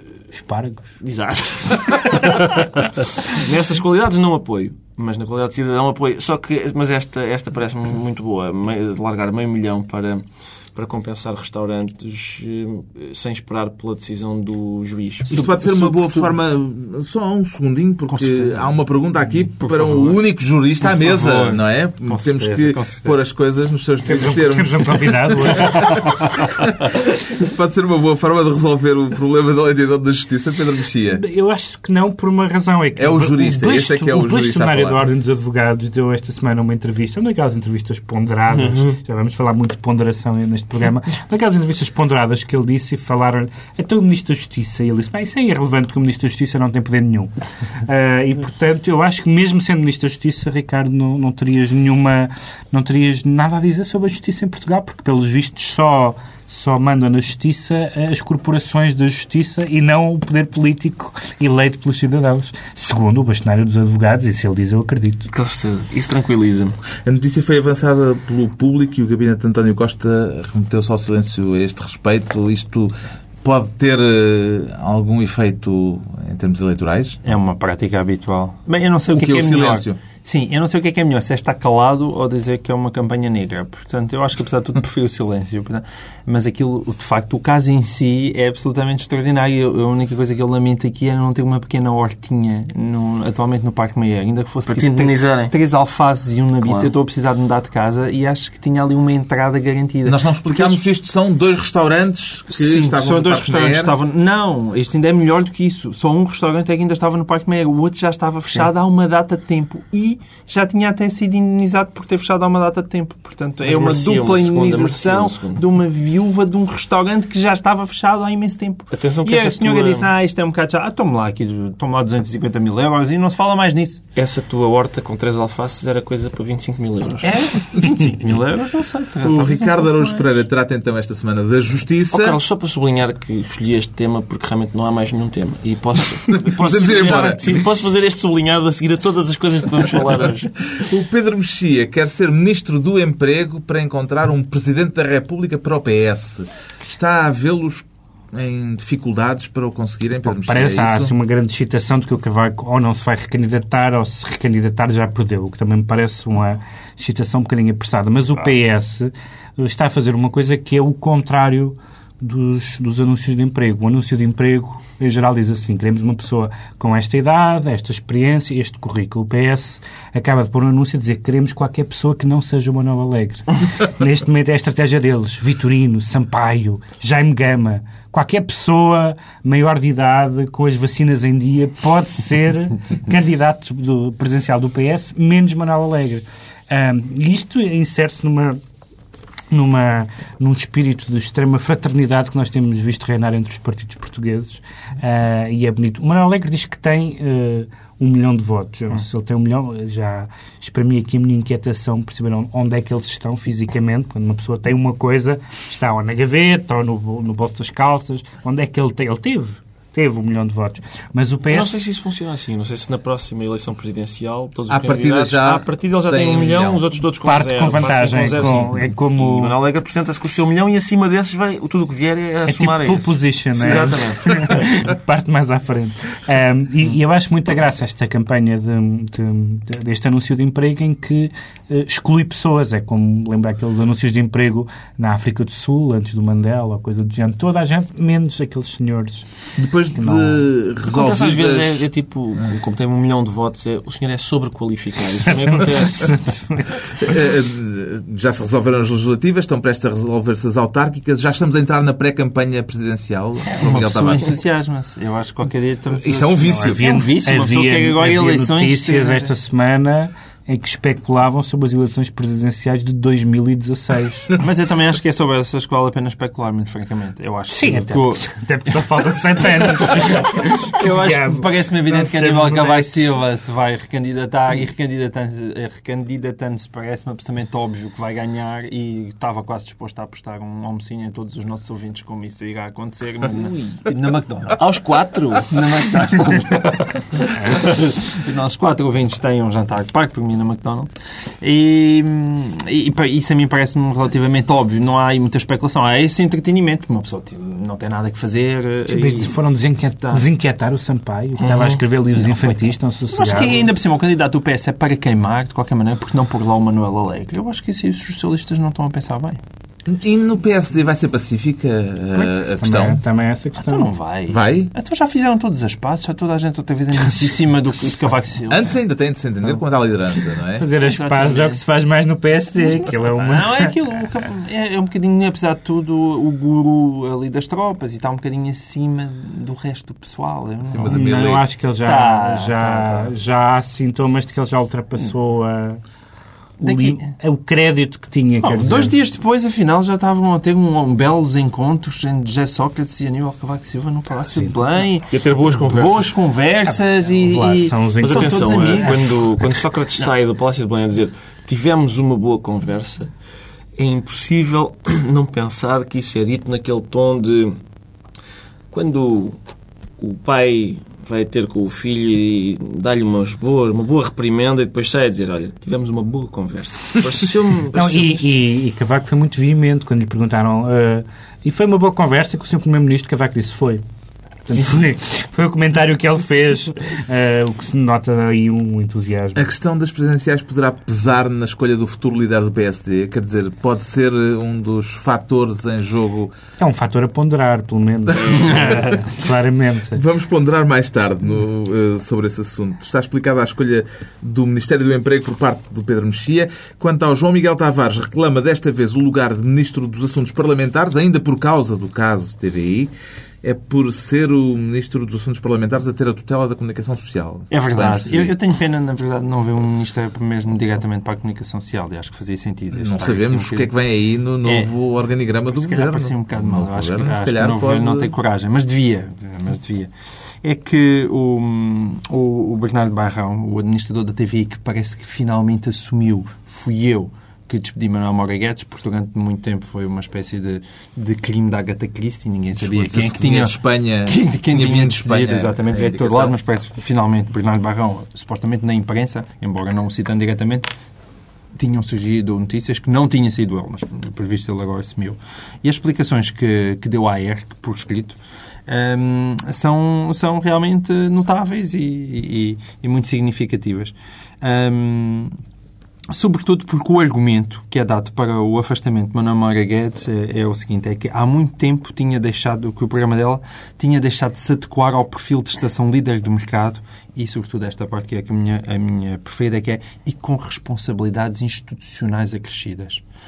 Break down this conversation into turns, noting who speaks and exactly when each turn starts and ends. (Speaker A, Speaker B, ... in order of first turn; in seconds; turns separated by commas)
Speaker A: 0.3-0.9, Speaker B: 1.0-15.4, Speaker C: 15.3-26.7, Speaker D: 15.4-16.3, Speaker D: 18.1-20.2, Speaker D: 20.8-23.2, Speaker A: 24.1-26.2, Speaker C: 27.3-31.2, Speaker A: 31.1-47.3, Speaker C: 33.0-35.1, Speaker B: 33.7-34.1, Speaker B: 38.5-39.0, Speaker A: 47.9-65.3, Speaker B: 65.3-66.8, Speaker C: 67.0-72.9, Speaker C: 73.4-77.2, Speaker D: 77.2-100.8, Speaker C: 79.2-80.0, Speaker B: 94.7-95.5, Speaker B: 96.6-96.9, Speaker C: 100.0-104.0, Speaker D: 102.5-124.0, Speaker B: 113.6-115.6, Speaker B: 118.9-120.1, Speaker B: 124.2-127.4, Speaker D: 127.2-130.4, Speaker C: 129.2-132.4, Speaker B: 132.1-140.5, Speaker C: 136.4-137.5, Speaker C: 140.8-151.1, Speaker A: 150.2-188.6, Speaker A: 189.5-211.8, Speaker B: 211.5-224.3, Speaker C: 214.7-216.8, Speaker A: 217.2-219.6, Speaker A: 222.5-239.2, Speaker C: 239.6-241.9, Speaker A: 239.9-240.5, Speaker B: 240.8-246.1, Speaker A: 245.3-247.1, Speaker C: 247.0-254.3, Speaker D: 253.5-259.3, Speaker C: 255.9-256.9, Speaker A: 256.5-264.3, Speaker D: 264.4-268.2, Speaker A: 267.5-273.1, Speaker D: 269.9-284.7, Speaker B: 283.4-283.8, Speaker B: 284.6-285.5, Speaker D: 285.4-290.9, Speaker D: 291.4-299.4, Speaker A: 298.9-303.7, Speaker B: 301.4-301.8, Speaker D: 302.1-309.4, Speaker C: 309.9-313.0, Speaker A: 312.1-313.9, Speaker D: 313.6-318.8, Speaker C: 314.3-314.7, Speaker C: 318.5-320.7, Speaker A: 320.6-323.7, Speaker D: 320.8-321.6, Speaker D: 322.6-333.1, Speaker C: 330.7-331.5, Speaker A: 330.9-335.8, Speaker A: 336.6-338.9, Speaker D: 336.6-337.1, Speaker D: 338.4-349.2, Speaker B: 345.1-346.1, Speaker A: 347.1-348.9, Speaker B: 348.0-353.1, Speaker B: 353.8-357.6, Speaker B: 358.7-359.4, Speaker B: 360.0-368.4, Speaker A: 367.8-373.8, Speaker A: 374.5-379.5, Speaker B: 374.5-374.8, Speaker C: 379.4-386.3, Speaker A: 386.6-390.0, Speaker C: 388.1-388.9, Speaker C: 389.9-402.9, Speaker C: 403.4-408.4, Speaker D: 407.5-413.7, Speaker C: 412.8-418.1, Speaker D: 414.4-414.7, Speaker D: 415.5-419.9, Speaker D: 420.4-440.7, Speaker C: 432.6-436.4, Speaker D: 441.6-455.3, Speaker D: 456.1-473.0